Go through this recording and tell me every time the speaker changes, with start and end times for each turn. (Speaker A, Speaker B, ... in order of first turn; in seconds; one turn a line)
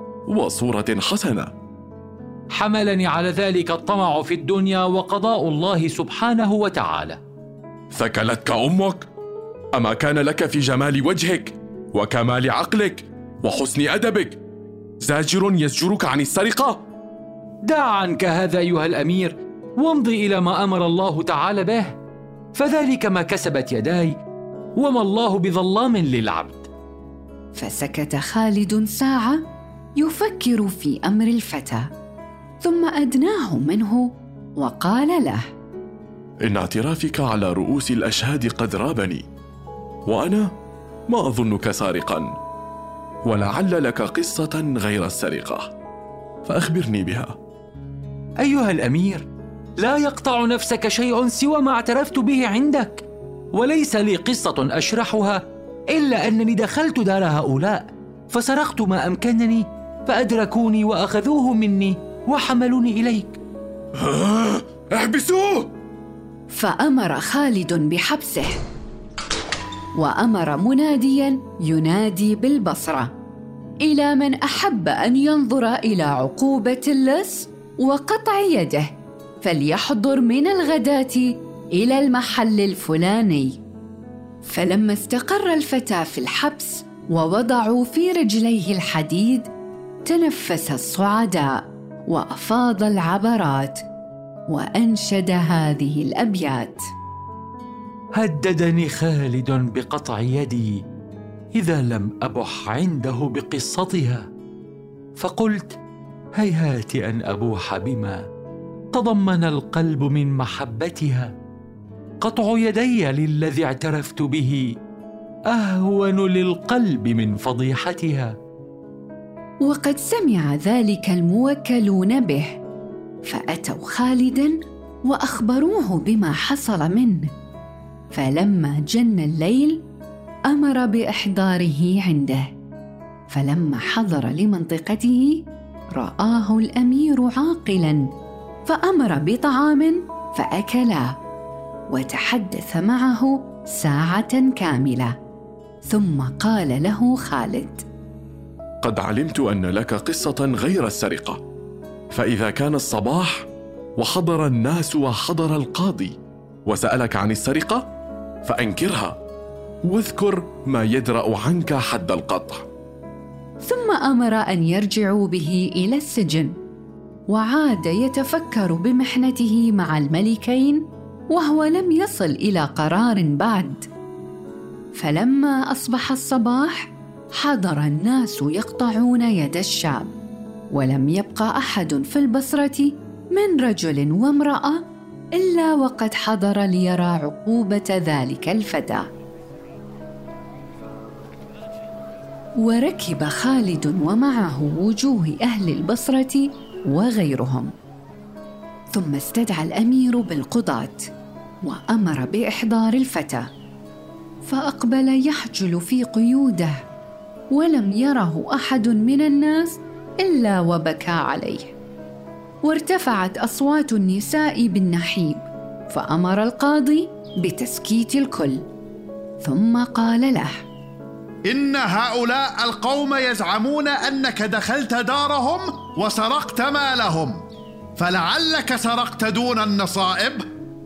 Speaker A: 0.3-1.5
Speaker B: 2.5-7.2
Speaker A: 7.9-9.1
Speaker A: 9.8-14.4
Speaker A: 15.0-16.8
Speaker B: 17.6-22.0
Speaker B: 22.5-24.2
Speaker B: 24.8-26.7
Speaker C: 27.5-29.4
Speaker C: 30.0-31.9
Speaker C: 32.6-35.5
Speaker A: 36.5-39.2
Speaker A: 40.1-40.5
Speaker A: 41.1-42.3
Speaker A: 43.2-45.7
Speaker A: 46.5-47.4
Speaker B: 48.4-49.2
Speaker B: 49.8-63.4
Speaker A: 64.0-65.7
Speaker C: 66.5-68.6
Speaker C: 70.0-73.1
Speaker C: 73.8-83.6
Speaker C: 84.4-89.5
Speaker C: 90.0-93.8
Speaker C: 94.5-96.9
Speaker B: 98.2-100.8
Speaker B: 101.5-104.3
Speaker B: 105.2-105.8
Speaker B: 106.3-108.3
Speaker B: 108.9-111.3
Speaker B: 112.2-114.8
Speaker B: 115.5-118.4
Speaker C: 119.6-122.6
Speaker C: 123.2-127.3
Speaker C: 128.1-129.8
Speaker C: 130.5-132.5
Speaker C: 133.3-138.1
Speaker C: 138.7-141.2
Speaker C: 141.9-145.1
Speaker C: 145.9-147.8
Speaker A: 148.8-151.4
Speaker A: 152.1-156.2
Speaker A: 156.7-157.9
Speaker A: 158.4-159.2
Speaker A: 159.9-162.7
Speaker C: 163.6-166.5
Speaker C: 167.3-173.8
Speaker C: 174.9-180.1
Speaker C: 180.7-184.8
Speaker C: 185.4-189.1
Speaker C: 192.6-197.7
Speaker C: 198.9-201.1
Speaker C: 201.6-203.5
Speaker C: 204.4-206.8
Speaker C: 207.5-211.7
Speaker C: 212.6-218.7
Speaker C: 219.4-220.7
Speaker D: 221.5-227.4
Speaker D: 228.0-230.5